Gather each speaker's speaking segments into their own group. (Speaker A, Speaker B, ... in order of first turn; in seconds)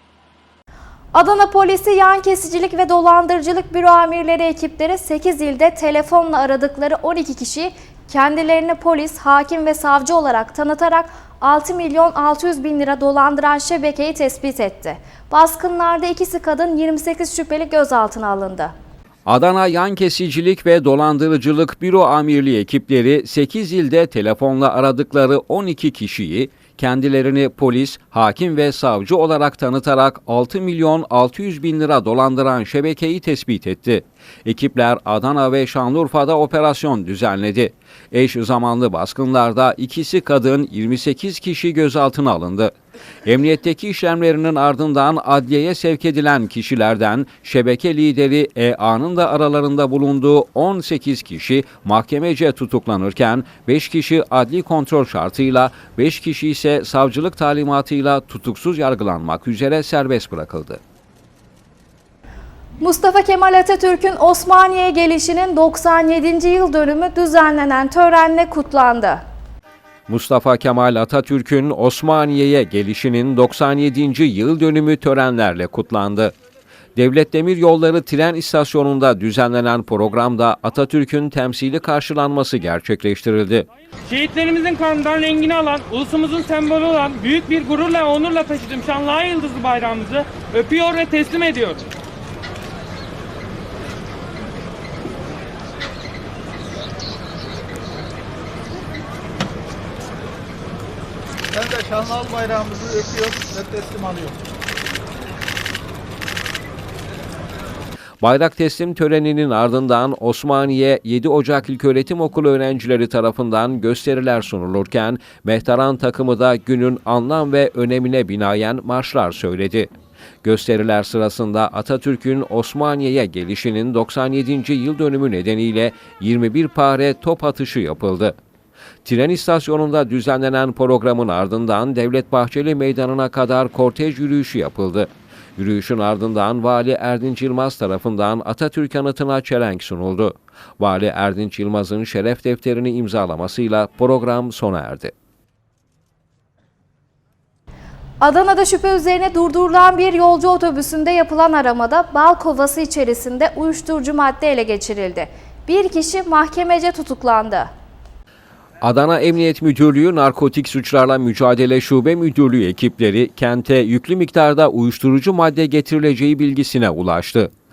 Speaker A: 1.1-18.7, 62.8-69.2, 148.2-157.7
Speaker B: 19.3-42.7, 43.2-60.8, 70.1-76.3, 77.0-83.7, 108.2-119.9, 120.4-128.4, 129.1-145.1, 158.8-167.5
Speaker C: 84.1-91.8
Speaker D: 101.5-104.4